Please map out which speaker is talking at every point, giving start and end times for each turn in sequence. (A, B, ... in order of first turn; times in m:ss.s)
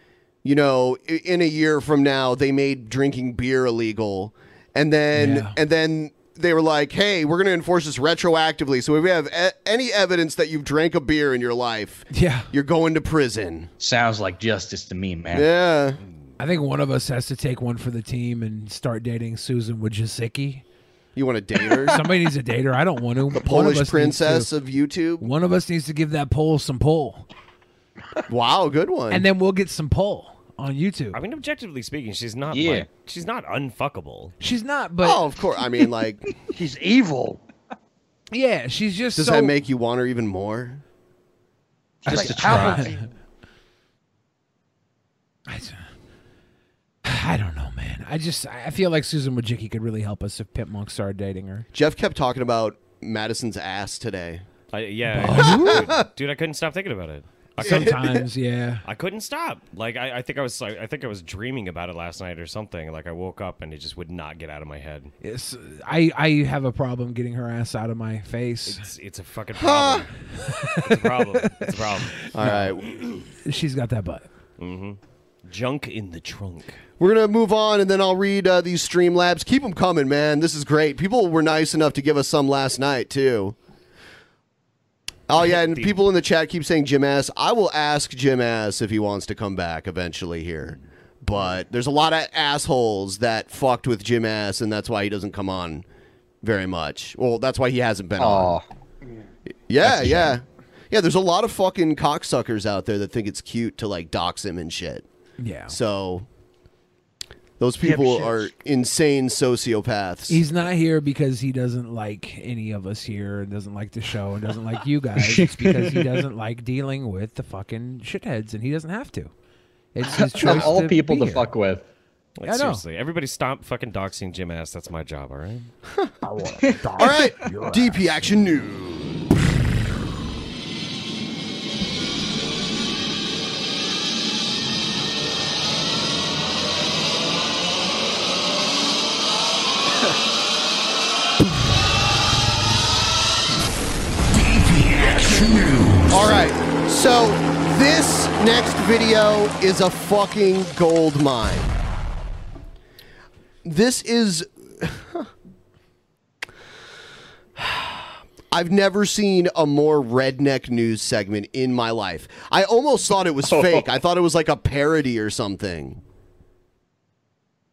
0:00.4-0:13.7 A
0:05.1-0:05.5 B
0:12.1-0:12.5 B
0:13.8-0:15.5 C
0:15.3-0:16.0 A
0:16.4-0:20.6 B
0:21.2-0:22.0 A
0:21.9-0:24.5 B
0:23.3-0:25.3 A
0:25.2-0:27.2 B
0:28.3-0:29.2 A
0:29.1-0:31.2 B
0:31.1-0:34.3 D
0:32.5-0:32.9 C
0:34.4-0:35.2 B
0:35.0-0:36.2 A
0:36.5-0:37.4 E
0:38.3-0:39.5 B
0:39.2-0:40.8 A
0:42.0-0:43.1 E
0:42.1-0:42.8 C
0:42.1-0:42.9 B
0:45.5-0:45.8 B
0:47.0-0:51.6 B
0:51.7-0:54.4 A
0:54.7-0:57.9 D
0:55.1-0:55.8 B
0:55.2-0:56.0 A
0:57.6-0:58.8 B
0:57.6-0:58.2 A
0:58.8-1:05.1 D
1:05.2-1:08.8 B
1:08.7-1:10.2 D
1:09.5-1:10.0 A
1:10.4-1:11.7 B
1:10.7-1:12.3 D
1:12.3-1:13.1 A
1:12.4-1:12.7 B
1:13.4-1:14.3 B
1:14.6-1:16.8 D
1:17.0-1:23.6 A
1:25.3-1:35.8 A
1:25.4-1:26.0 D
1:36.4-1:38.6 A
1:38.2-1:38.6 C
1:39.7-1:45.0 A
1:39.8-1:40.3 C
1:45.4-1:45.7 B
1:45.7-1:46.2 A
1:47.6-1:50.4 A
1:47.8-1:48.5 E
1:50.3-1:59.3 B
1:55.2-1:56.2 C
1:59.9-2:01.5 B
2:00.1-2:01.8 C
2:02.4-2:05.7 D
2:02.5-2:02.8 B
2:06.5-2:07.8 B
2:07.0-2:09.2 A
2:26.1-2:31.7 A
2:33.6-2:35.3 A
2:37.6-2:46.0 A
2:43.5-2:43.9 C